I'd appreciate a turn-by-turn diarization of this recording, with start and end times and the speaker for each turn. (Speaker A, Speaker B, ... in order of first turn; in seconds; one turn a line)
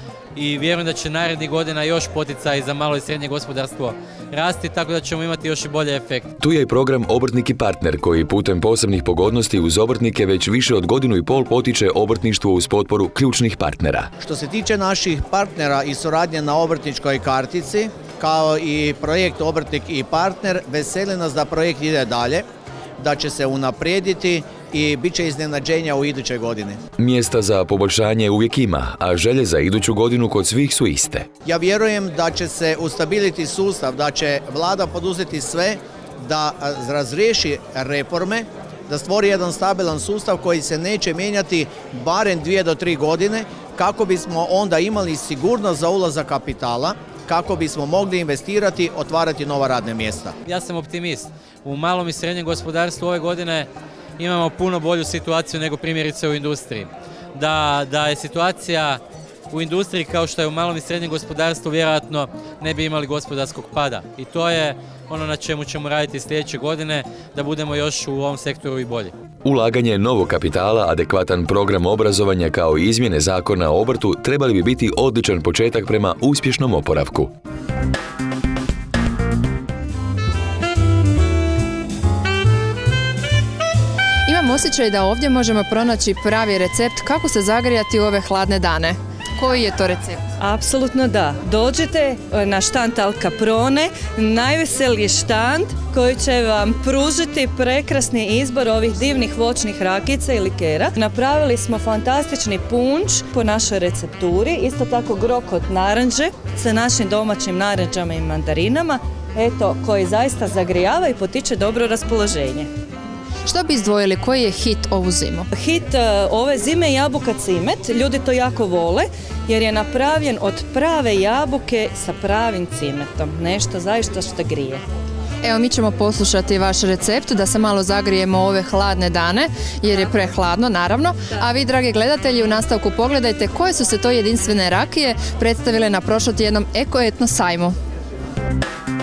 Speaker A: 0.3-6.3
Speaker B: 6.4-14.1
Speaker C: 14.2-22.4
Speaker C: 23.0-26.8
Speaker B: 27.0-31.3
Speaker C: 31.4-50.3
Speaker A: 50.4-69.1
Speaker B: 69.4-77.3
Speaker D: 84.3-90.2
Speaker E: 90.4-112.7
Speaker D: 113.5-115.5
Speaker E: 115.5-124.8
Speaker D: 125.4-137.7